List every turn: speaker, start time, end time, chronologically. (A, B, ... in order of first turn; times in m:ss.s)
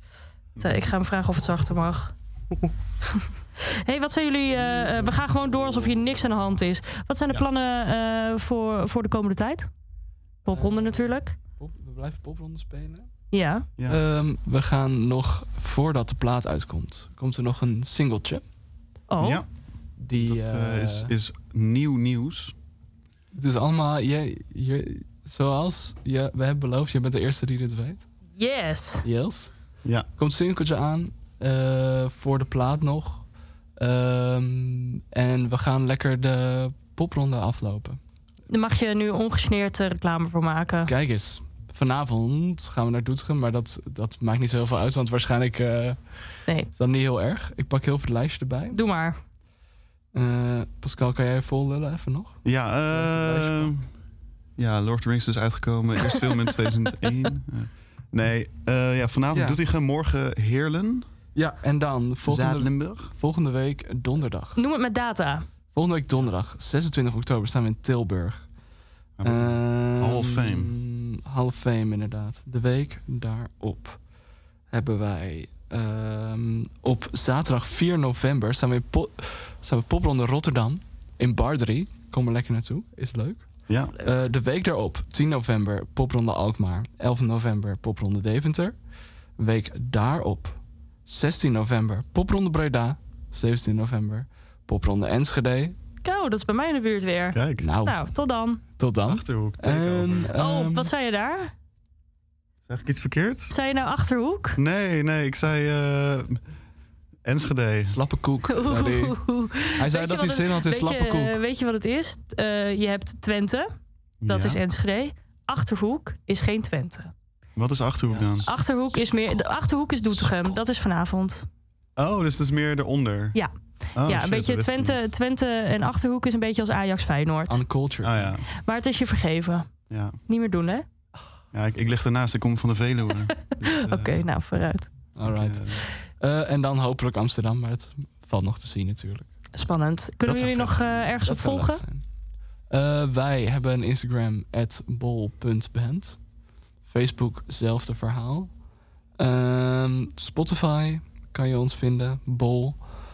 0:00.6-0:02.1 A
0:03.8-0:09.7 A
0:10.4-0:11.4 A
0:10.5-0:13.1 B
0:13.3-0:13.7 A
0:13.8-0:14.0 C
0:13.9-0:18.4 B
0:19.1-0:19.4 A
0:19.2-0:22.5 C
0:20.0-0:21.1 B
0:23.4-0:28.0 B
0:28.4-0:29.1 A
0:29.0-0:29.5 B
0:30.2-0:33.2 B
0:33.8-0:38.0 B
0:38.5-0:40.9 A
0:40.9-0:46.0 B
0:46.7-0:48.7 B
0:48.7-0:49.2 A
0:50.1-0:53.7 B
0:52.4-0:53.9 C
0:54.6-1:01.1 C
1:01.4-1:04.6 B
1:02.2-1:03.1 C
1:04.6-1:05.5 A
1:05.7-1:08.4 B
1:09.2-1:10.8 C
1:09.3-1:14.0 B
1:14.7-1:23.5 B
1:23.7-1:23.9 C
1:24.0-1:28.7 B
1:29.4-1:35.7 B
1:36.0-1:38.6 A
1:37.3-1:37.7 C
1:37.6-1:37.9 B
1:38.8-1:40.9 B
1:39.0-1:40.3 C
1:40.3-1:41.5 A
1:42.7-1:43.5 C
1:43.5-1:44.6 A
1:44.6-1:46.4 C
1:47.2-1:48.0 C
1:47.9-1:49.1 B
1:48.5-1:53.7 A
1:49.8-1:51.3 B
1:54.2-1:54.6 C
1:54.2-1:57.1 A
1:57.6-1:58.6 C
1:58.1-1:58.4 B
1:58.4-2:01.5 A
2:02.0-2:03.4 C
2:03.3-2:07.6 A
2:03.9-2:05.1 C
2:07.5-2:08.2 B
2:08.0-2:08.4 C
2:08.5-2:09.7 A
2:09.9-2:10.2 C
2:10.2-2:10.8 A
2:11.5-2:14.2 C
2:13.6-2:14.9 A
2:15.2-2:19.3 B
2:15.2-2:15.8 C
2:19.5-2:21.8 A
2:20.2-2:21.1 C
2:21.3-2:22.0 B
2:22.7-2:26.2 B
2:26.8-2:28.5 B
2:29.2-2:32.8 B